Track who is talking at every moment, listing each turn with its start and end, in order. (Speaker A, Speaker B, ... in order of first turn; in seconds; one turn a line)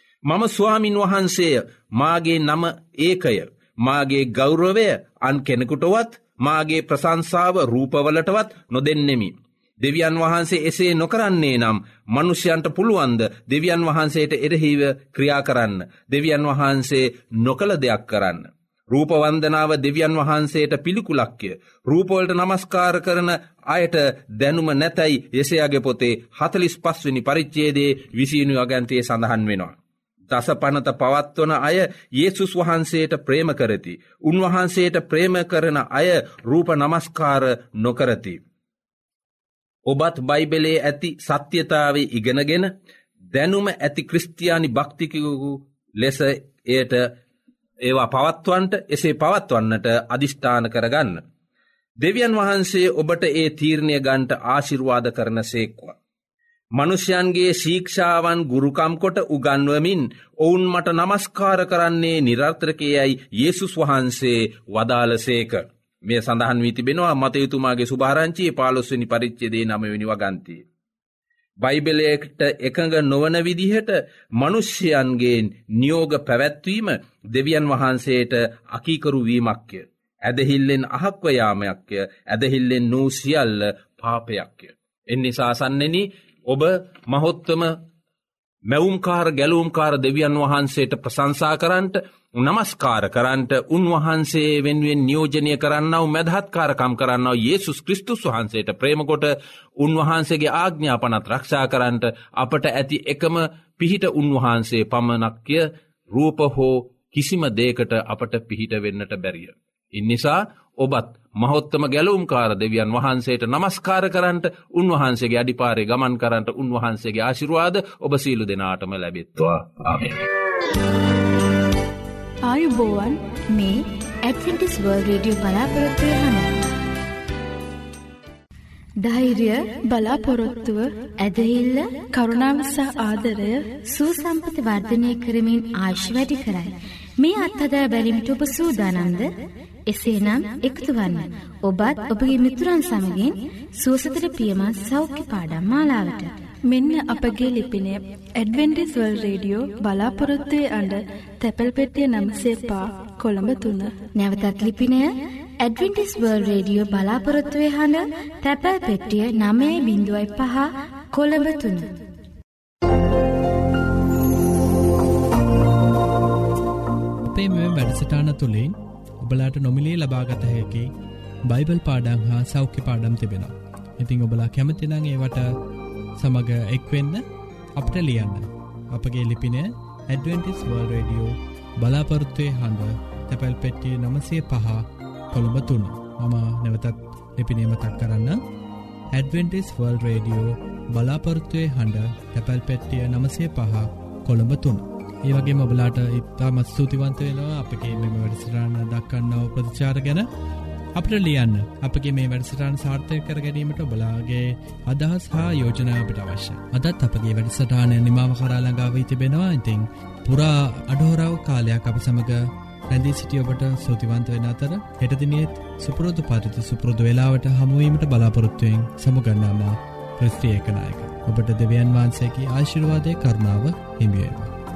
Speaker A: 0.3-29.8
Speaker A: 30.3-38.4
Speaker A: 39.9-42.7
Speaker A: 43.3-47.1
Speaker A: 47.9-51.2
Speaker A: 52.0-56.0
Speaker A: 56.8-70.7
Speaker A: 71.6-87.8
Speaker A: 88.7-120.2
Speaker B: 122.5-123.2
Speaker C: 123.5-126.5
Speaker C: 129.0-129.7
Speaker B: 129.9-130.9
Speaker C: 131.2-131.9
Speaker B: 132.2-133.7
Speaker C: 133.9-139.3
Speaker C: 139.9-146.3
Speaker B: 146.7-153.9
Speaker C: 154.2-161.9
Speaker D: 167.3-170.9
Speaker D: 171.5-175.5
Speaker D: 176.2-177.2
Speaker D: 177.8-188.4
Speaker D: 189.1-200.3
Speaker D: 201.0-224.5